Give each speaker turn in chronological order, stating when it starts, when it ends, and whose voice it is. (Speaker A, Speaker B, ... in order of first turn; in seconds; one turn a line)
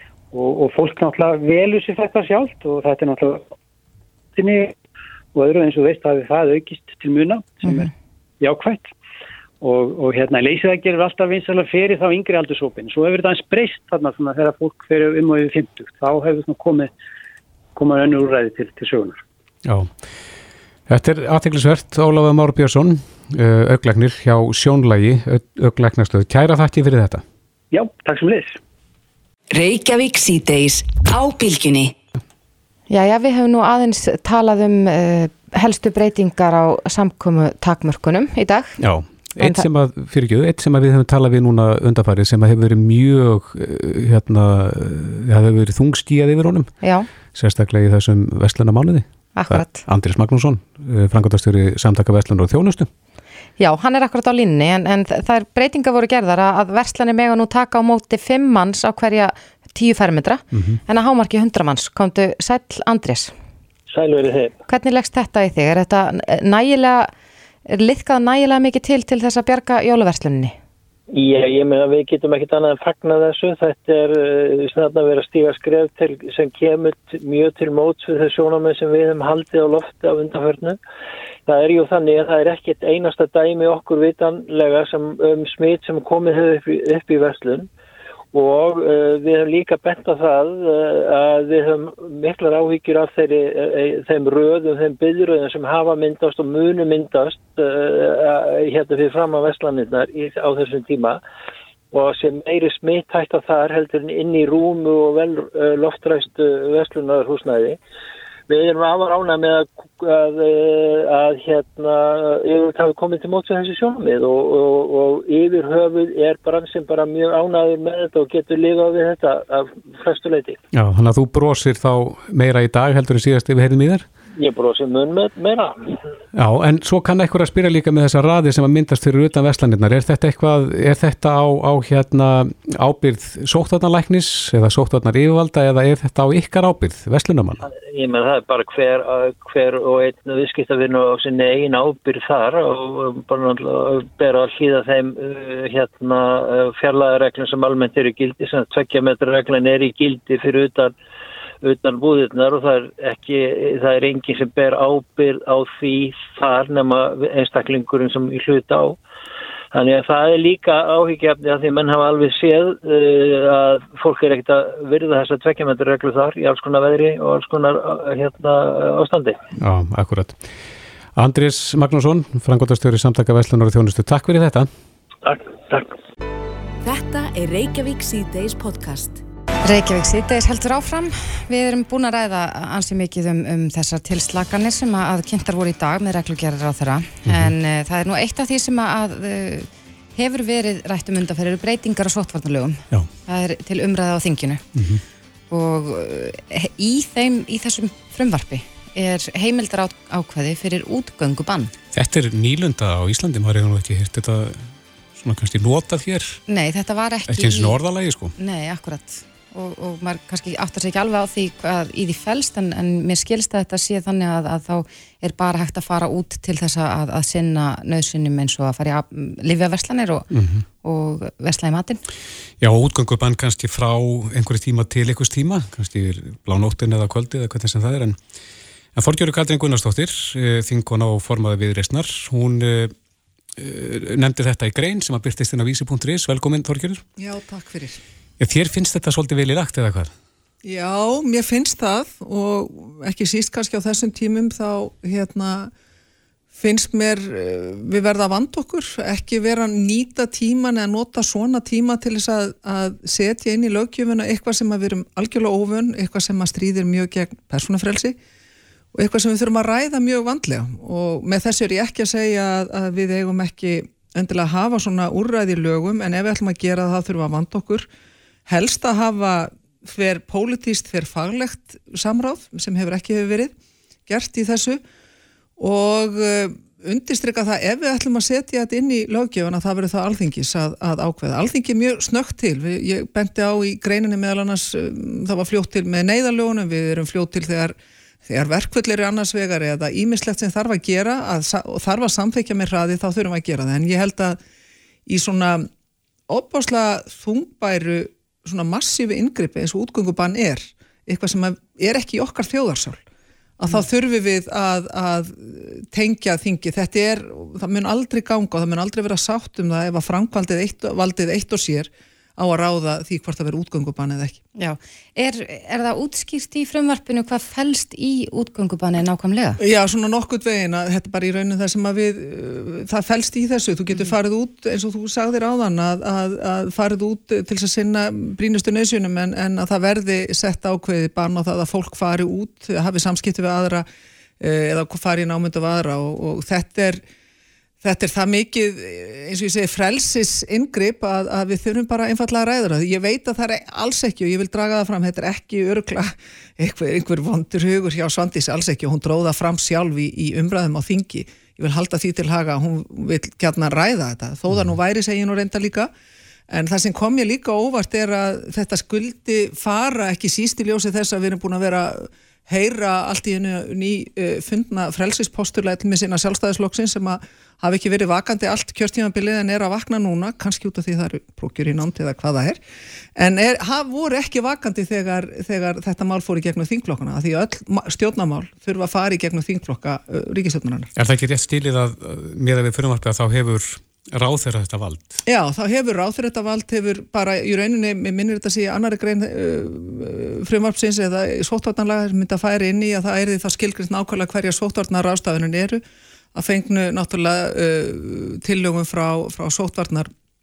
Speaker A: 0.3-3.5
Speaker A: 4.3-4.7
Speaker A: 5.3-8.9
Speaker A: 9.6-16.9
Speaker A: 17.8-19.2
Speaker B: 20.9-27.2
Speaker A: 27.7-28.6
Speaker C: 29.5-31.9
Speaker D: 32.9-38.8
Speaker B: 38.8-46.7
Speaker D: 39.4-39.7
Speaker D: 46.8-47.1
Speaker B: 47.3-52.9
Speaker D: 49.4-49.8
Speaker D: 53.6-63.3
Speaker B: 60.5-60.8
Speaker E: 63.9-64.5
Speaker D: 64.7-67.1
Speaker D: 67.7-70.5
Speaker E: 71.1-80.8
Speaker E: 81.5-87.7
Speaker E: 88.3-101.2
Speaker E: 101.9-107.8
Speaker E: 108.5-120.6
Speaker B: 120.7-124.0
Speaker E: 124.4-126.0
Speaker B: 126.3-137.6
Speaker E: 137.6-150.9
Speaker E: 151.6-159.0
Speaker E: 159.7-169.4
Speaker B: 169.6-170.4
Speaker B: 171.2-174.7
Speaker E: 175.2-175.9
Speaker C: 176.8-179.2
Speaker D: 179.7-194.6
Speaker B: 187.2-187.5
Speaker B: 194.8-195.0
Speaker D: 195.5-201.7
Speaker B: 201.9-206.4
Speaker D: 206.5-207.8
Speaker B: 207.3-208.3
Speaker D: 208.4-220.3
Speaker B: 220.3-220.6
Speaker D: 220.8-222.0
Speaker B: 222.6-228.2
Speaker B: 228.9-232.9
Speaker B: 233.6-237.0
Speaker F: 237.2-238.0
Speaker B: 238.4-240.1
Speaker F: 240.6-245.7
Speaker F: 246.6-258.2
Speaker F: 258.9-267.9
Speaker F: 268.5-273.5
Speaker F: 274.1-274.8
Speaker F: 275.6-287.8
Speaker F: 288.3-294.4
Speaker F: 295.1-295.7
Speaker F: 296.3-303.0
Speaker F: 303.6-314.4
Speaker D: 314.6-319.6
Speaker F: 319.6-333.9
Speaker F: 334.4-337.0
Speaker F: 337.8-355.9
Speaker F: 356.5-372.6
Speaker F: 373.1-380.9
Speaker B: 380.9-385.2
Speaker F: 385.3-395.8
Speaker F: 396.3-400.1